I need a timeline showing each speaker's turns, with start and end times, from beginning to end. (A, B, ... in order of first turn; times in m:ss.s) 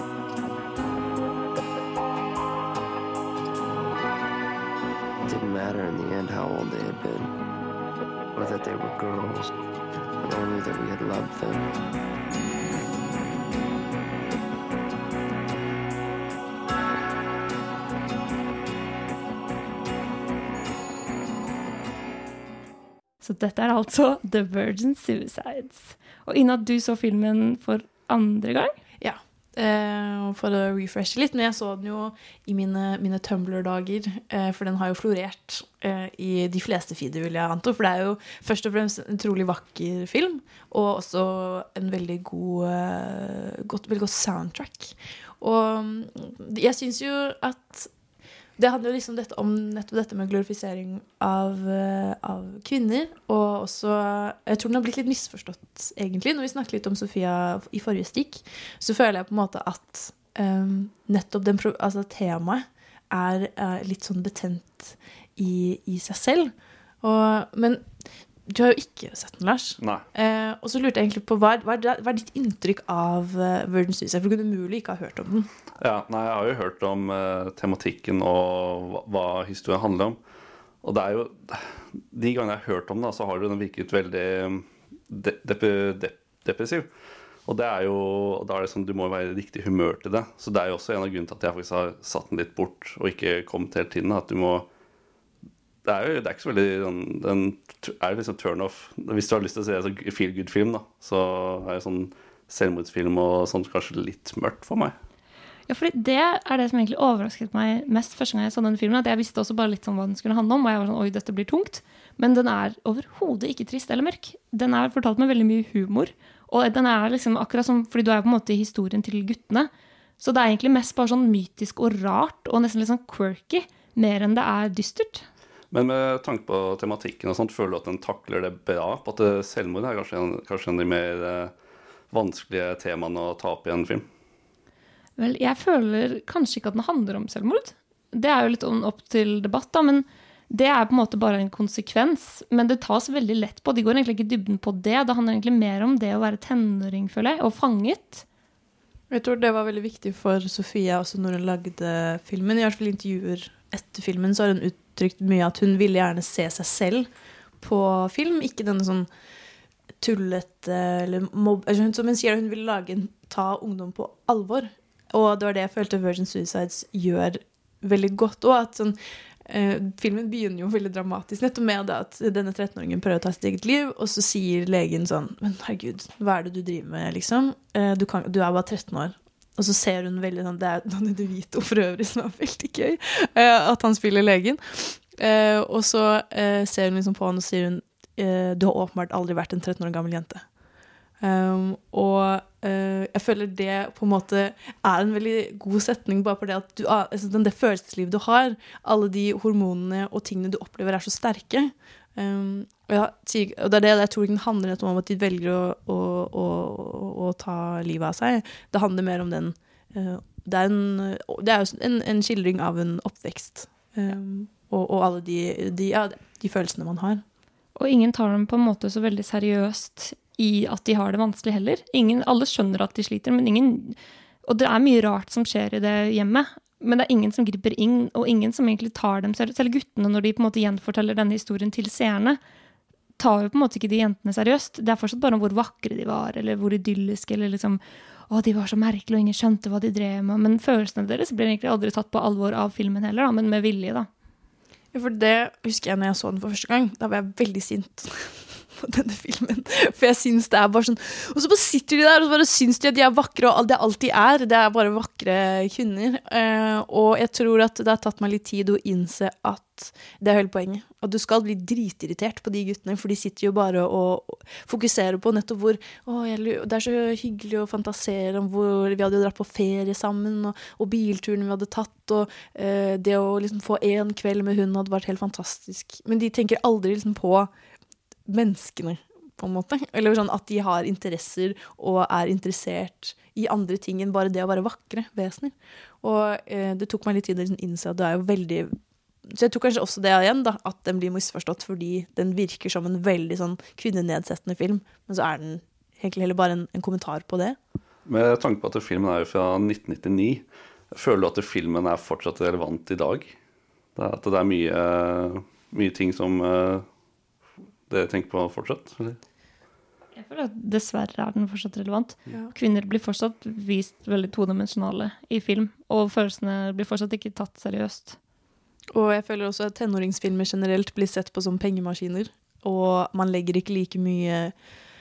0:05.2-0:07.3 A
0:08.3-0:09.5 A
0:10.2-0:11.8 A
0:23.2-0:28.7 B
0:29.0-0:47.9 C
0:48.6-1:07.8 C
1:08.4-1:15.5 C
1:15.8-1:20.2 D
1:20.8-1:26.9 D
1:27.4-1:34.7 D
1:35.8-1:44.9 D
1:45.7-2:05.2 B
2:05.7-2:11.5 D
2:12.1-2:14.0 D
2:15.2-2:28.2 B
2:29.1-2:39.1 C
2:40.0-3:10.4 C
3:11.2-3:37.2 C
3:37.8-3:52.4 B
3:53.2-4:04.1 B
4:04.9-4:37.5 C
4:38.3-4:57.6 C
4:58.0-5:03.4 D
5:04.0-5:06.8 D
5:07.9-5:09.2 D
5:10.1-5:18.2 B
5:18.9-5:24.5 C